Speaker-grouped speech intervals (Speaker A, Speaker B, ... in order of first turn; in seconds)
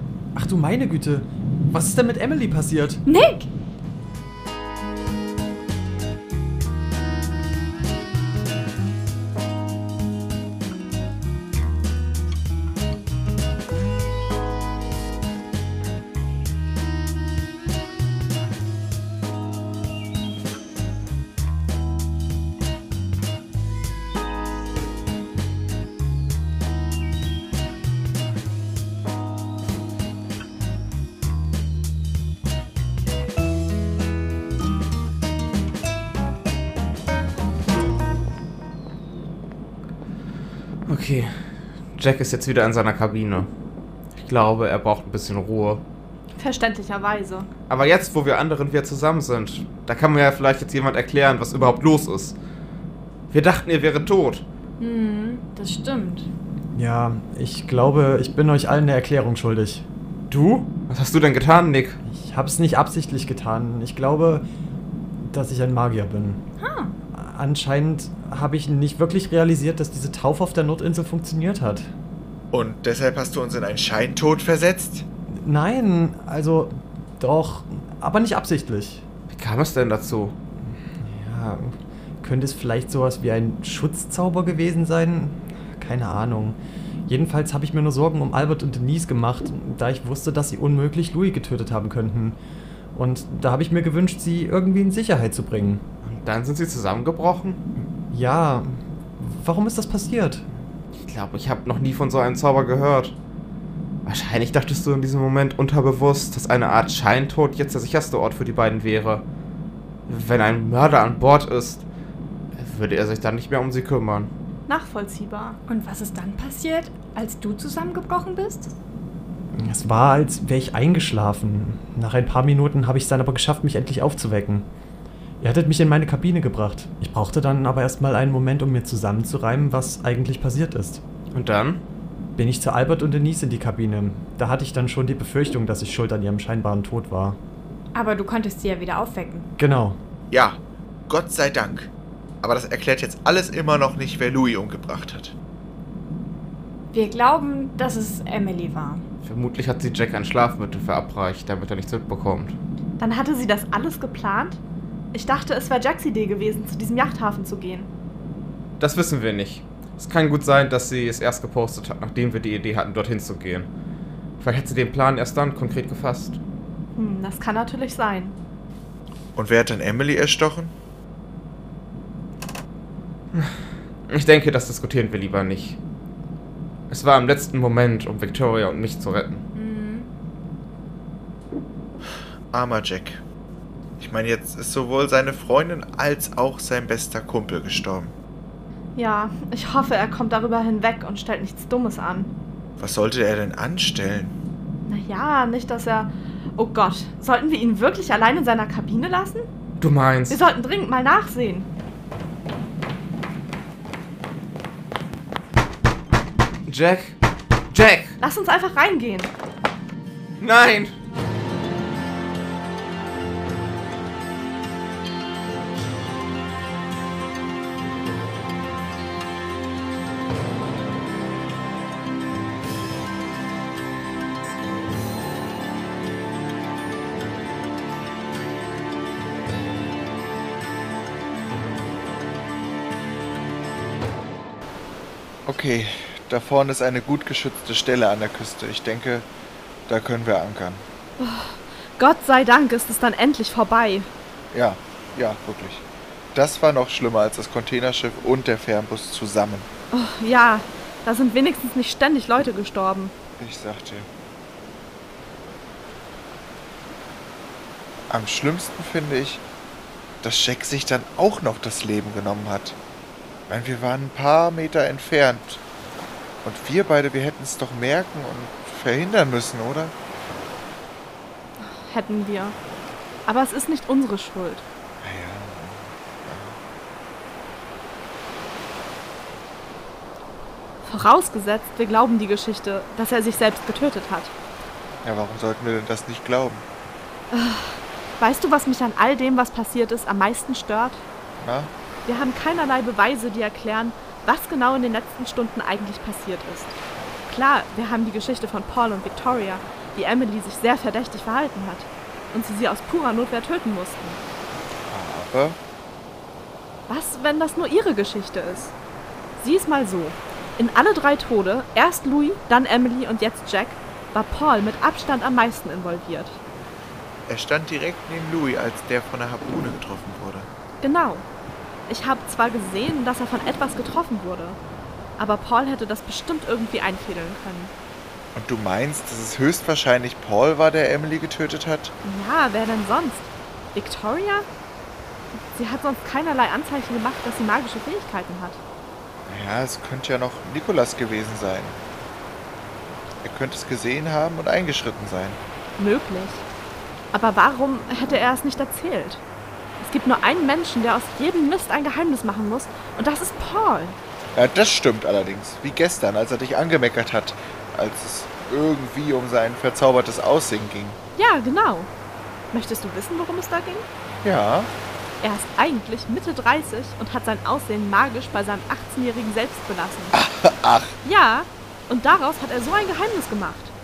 Speaker A: 0.3-3.0, 56.7-59.8, 62.1-64.5, 65.2-66.4, 67.1-71.9, 75.3-79.0, 81.0-92.4, 92.9-95.8, 98.1-100.4, 119.6-124.7, 125.4-131.0, 132.4-137.4, 139.6-140.0
Speaker B: 3.1-3.5, 54.8-56.3, 66.6-67.0, 115.7-118.7, 137.9-139.5, 146.9-149.0, 179.5-180.1
Speaker C: 40.9-41.4, 42.0-43.5, 44.2-45.8, 47.7-52.4, 53.3-54.4, 60.3-62.0, 79.3-80.4, 96.0-97.6, 101.0-103.1, 104.0-109.2, 110.1-111.8, 112.6-114.3, 131.3-131.8, 149.2-152.6, 158.8-163.7, 164.4-166.4, 174.1-175.8, 176.9-179.4, 199.8-200.4, 206.7-207.2, 207.7-208.2, 210.4-210.9
Speaker D: 46.4-47.5, 114.7-115.6, 153.0-154.6, 155.1-157.9, 166.9-168.3, 188.9-192.3, 194.8-199.4, 200.3-201.7, 208.2-209.3, 241.2-244.1, 249.9-253.1, 271.6-272.6, 273.3-274.6, 280.8-284.3, 287.3-291.1, 292.1-296.8, 297.3-304.2, 306.9-308.7, 309.4-316.4, 320.8-321.3, 321.9-324.6, 325.2-327.7, 332.0-334.5, 335.5-338.6, 345.8-346.4, 347.1-349.2, 349.8-354.0, 361.2-361.9, 362.5-363.9, 365.2-370.1, 371.0-373.7
Speaker E: 72.5-75.0, 140.3-140.6, 141.1-141.9, 142.4-145.3, 169.4-170.7, 182.5-183.2, 184.0-188.1, 192.8-194.3, 235.4-239.3, 239.9-240.8, 244.5-249.7, 253.4-254.1, 258.1-259.4, 260.2-262.8, 263.5-265.6, 266.4-269.9, 275.0-276.6, 285.0-286.6, 291.4-291.7, 304.9-305.6, 317.3-320.5, 328.4-331.9, 339.3-341.8, 343.2-345.4, 354.4-361.0, 364.2-364.7, 370.1-371.0